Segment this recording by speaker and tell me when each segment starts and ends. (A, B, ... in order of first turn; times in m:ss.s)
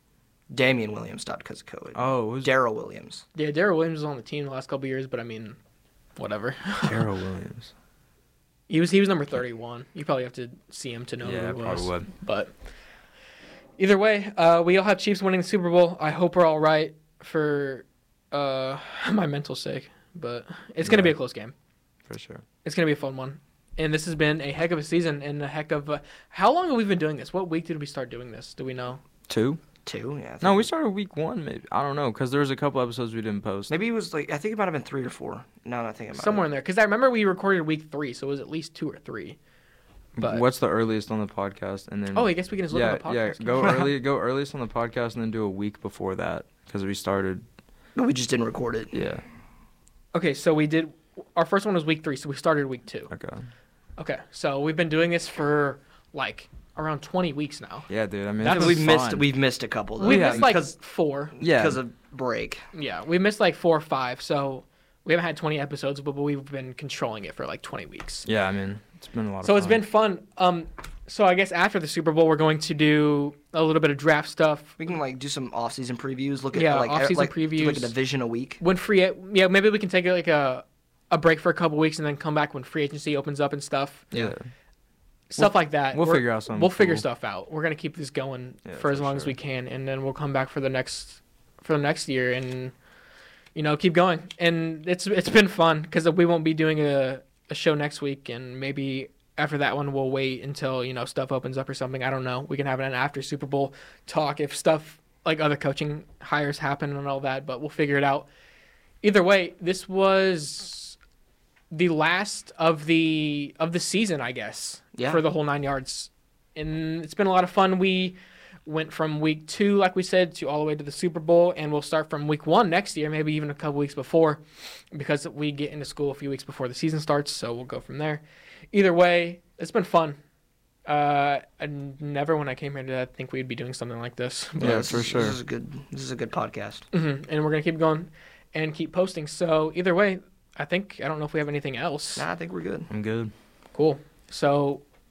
0:00.5-0:03.2 A
0:02.0-0:02.5 B
0:03.4-0:05.6 C
0:06.2-0:07.0 C
0:06.8-0:07.7 B
0:08.7-0:12.5 C
0:11.2-0:12.1 B
0:13.8-0:21.5 C
0:20.8-0:21.1 B
0:22.1-0:22.4 B
0:22.6-0:29.0 C
0:29.3-0:29.6 B
0:29.9-0:30.7 A
0:30.4-0:33.7 B
0:33.7-0:36.4 A
0:36.1-0:39.4 C
0:40.2-0:47.4 B
0:40.2-0:40.4 C
0:42.1-0:43.8 C
0:48.0-0:48.9 A
0:48.9-0:49.2 B
0:50.1-0:53.1 C
0:53.1-0:53.5 B
0:54.0-0:57.9 C
0:57.9-0:59.3 B
0:58.4-0:58.9 C
0:58.5-1:00.8 A
1:00.0-1:01.3 C
1:00.0-1:00.6 B
1:01.4-1:02.6 A
1:01.4-1:01.8 B
1:02.7-1:08.3 C
1:08.2-1:09.8 B
1:09.4-1:14.8 C
1:14.8-1:18.6 A
1:16.5-1:17.9 C
1:18.6-1:24.1 C
1:24.1-1:24.5 B
1:25.3-1:32.7 C
1:25.4-1:27.0 B
1:28.7-1:29.4 B
1:33.6-1:48.3 C
1:49.0-1:51.0 C
1:51.7-2:10.2 C
1:55.0-1:55.2 A
2:10.9-2:15.0 C
2:14.6-2:16.8 A
2:14.6-2:15.4 B
2:16.9-2:22.3 C
2:22.2-2:22.9 A
2:22.9-2:23.3 B
2:23.7-2:24.8 C